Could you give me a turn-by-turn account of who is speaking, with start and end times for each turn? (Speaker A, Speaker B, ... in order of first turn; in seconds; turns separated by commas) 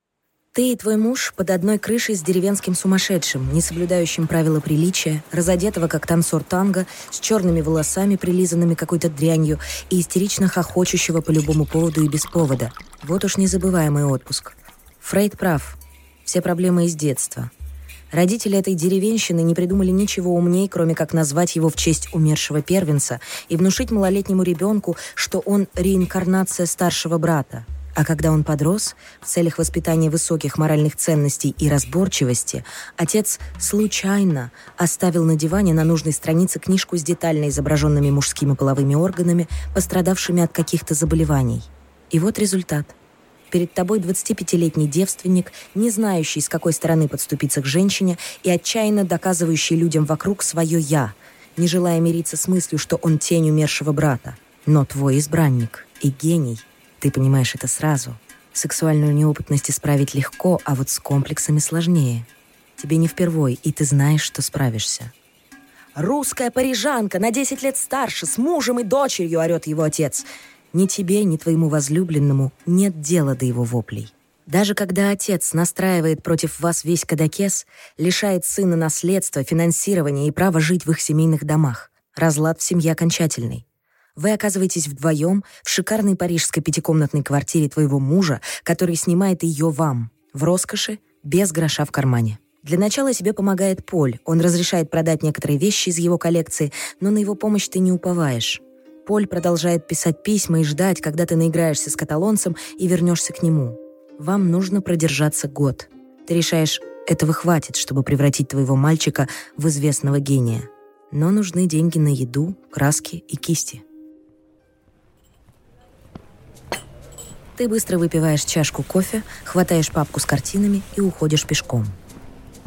Speaker A: 0.5-17.5, Speaker A: 18.1-42.9, Speaker A: 43.5-65.1, Speaker A: 65.9-83.6, Speaker A: 84.2-113.8, Speaker A: 117.6-122.0